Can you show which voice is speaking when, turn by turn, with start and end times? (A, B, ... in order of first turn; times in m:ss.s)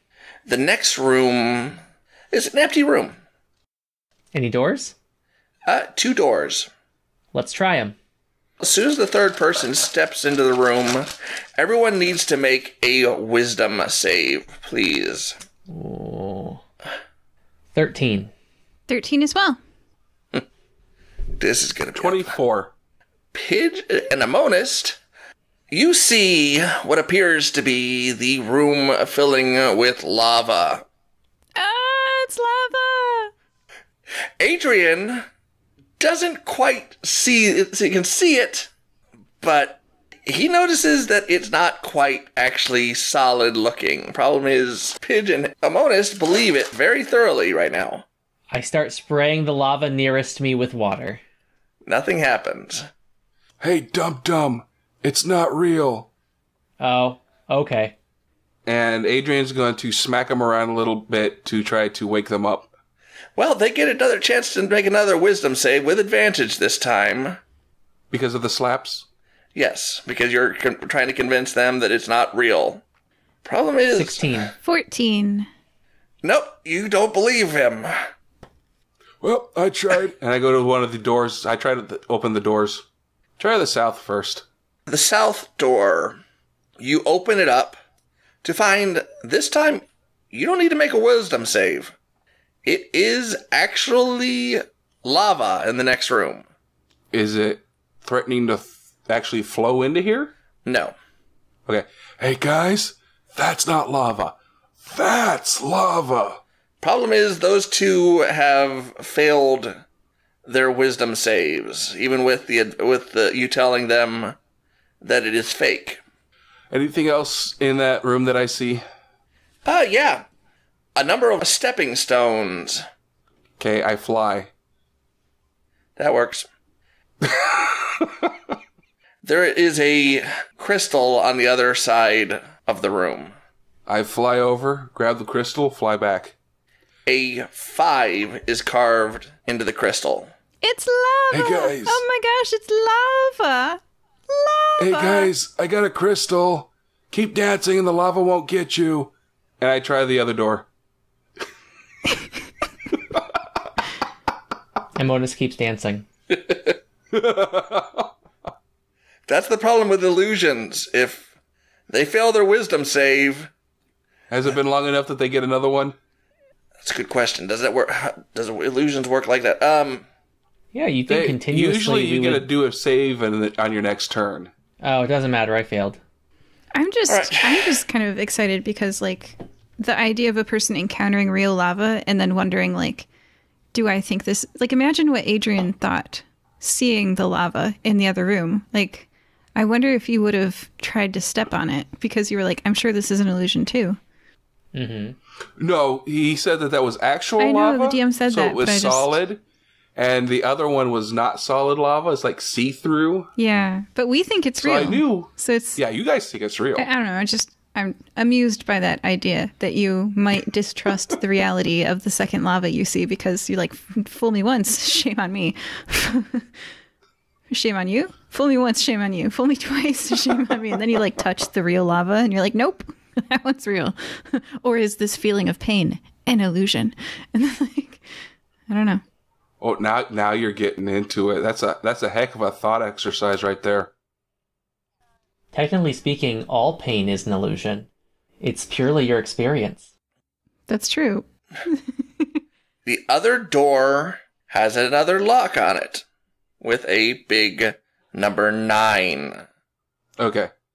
0:00.5-0:01.8 A
0:02.3-0:03.2 A
0:04.3-0:04.9 B
0:05.7-0:06.7 A
0:07.3-0:08.0 B
0:08.6-0:15.3 A
0:15.7-0:16.6 B
0:17.7-0:18.3 B
0:18.9-0:19.6 C
0:21.4-0:22.3 A
0:22.0-0:22.7 D
0:23.3-0:25.0 A
0:25.7-0:30.8 A
0:31.6-0:33.3 C
0:34.4-0:35.2 A
0:36.0-0:38.7 A
0:39.4-0:48.0 A
0:48.5-0:51.2 B
0:51.8-0:52.8 A
0:53.6-0:56.1 D
0:56.8-0:58.0 B
0:58.6-1:02.7 D
1:03.4-1:07.4 A
1:08.1-1:09.0 D
1:09.5-1:12.8 A
1:13.4-1:14.5 A
1:13.9-1:14.5 B
1:14.6-1:15.5 C
1:16.2-1:17.9 A
1:19.2-1:22.8 D
1:23.4-1:24.4 D
1:24.9-1:26.2 A
1:26.8-1:27.8 A
1:28.4-1:31.9 A
1:32.6-1:36.4 A
1:37.1-1:40.3 D
1:40.6-1:40.9 A
1:41.6-1:46.4 D
1:46.8-1:49.8 A
1:50.4-1:54.4 A
1:55.0-1:56.0 A
1:56.7-1:58.8 D
1:59.6-2:00.2 A
2:01.0-2:02.8 A
2:03.6-2:04.5 D
2:06.0-2:06.5 A
2:07.2-2:08.3 D
2:09.2-2:13.3 A
2:13.9-2:16.3 D
2:17.0-2:20.3 A
2:20.6-2:25.3 C
2:21.3-2:22.0 D
2:24.8-2:30.7 D
2:34.9-2:36.0 B
2:37.1-2:38.1 D
2:39.3-2:41.3 A
2:41.9-2:43.5 A
2:44.3-2:46.0 D
2:46.8-2:50.0 A
2:50.7-2:52.5 B
2:51.1-2:54.5 D
2:54.8-2:56.0 B
2:56.7-3:03.1 C
2:57.1-2:57.8 A
3:03.7-3:14.0 C
3:14.7-3:15.2 B
3:15.6-3:19.4 D
3:17.4-3:19.2 C
3:20.0-3:23.3 D
3:23.4-3:25.8 C
3:24.6-3:26.9 D
3:26.8-3:36.5 C
3:37.5-3:48.0 C
3:48.7-3:49.0 C
3:49.6-3:53.9 D
3:55.5-3:57.9 B
3:58.4-3:59.9 B
4:00.7-4:02.3 C
4:02.8-4:06.0 A
4:06.6-4:09.4 A
4:10.2-4:10.5 D